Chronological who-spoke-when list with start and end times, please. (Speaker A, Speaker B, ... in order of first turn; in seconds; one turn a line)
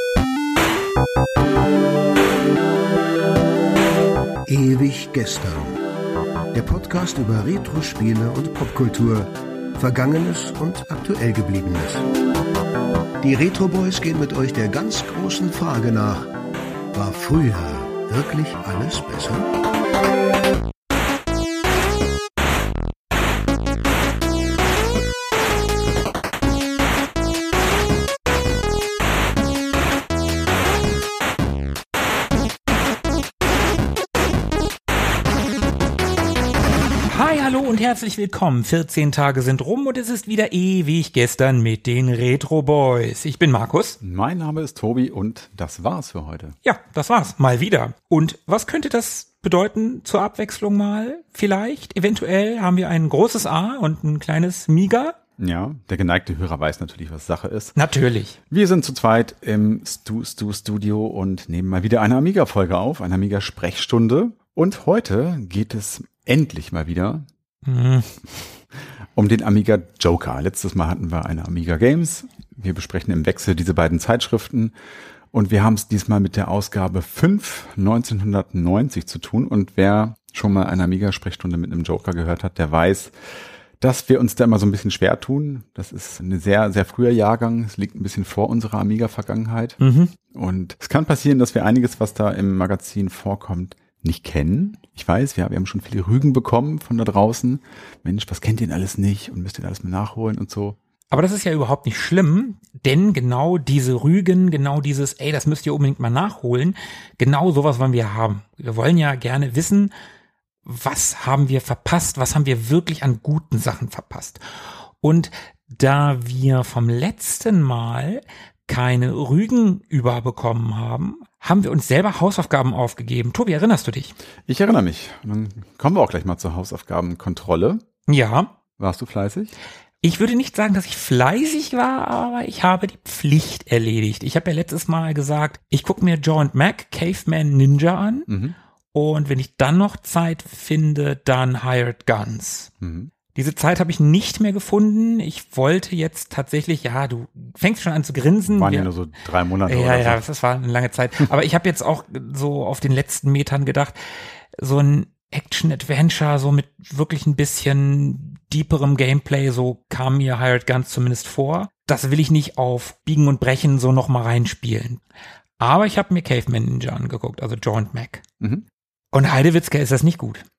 Speaker A: 4.5-5.8
Speaker A: 6.5-12.0
Speaker A: 13.2-16.3
Speaker A: 16.9-19.5
Speaker B: 37.0-44.0
Speaker C: 44.0-46.6
Speaker B: 46.6-55.2
Speaker C: 55.4-57.7
Speaker B: 57.8-58.4
Speaker C: 58.5-67.2
Speaker B: 67.6-68.1
Speaker C: 69.2-74.7
Speaker C: 75.3-83.1
Speaker C: 83.8-89.8
Speaker B: 89.8-90.1
Speaker C: 90.3-100.8
Speaker B: 101.1-109.9
Speaker B: 110.6-114.4
Speaker B: 115.0-124.2
Speaker C: 124.5-127.8
Speaker B: 128.1-128.5
Speaker C: 128.8-129.5
Speaker B: 130.0-138.3
Speaker C: 138.3-138.6
Speaker B: 138.9-142.7
Speaker C: 142.8-143.1
Speaker B: 143.3-148.9
Speaker C: 148.4-150.2
Speaker B: 149.7-153.9
Speaker B: 154.6-165.0
Speaker B: 165.6-168.2
Speaker C: 168.4-168.6
Speaker B: 169.1-170.4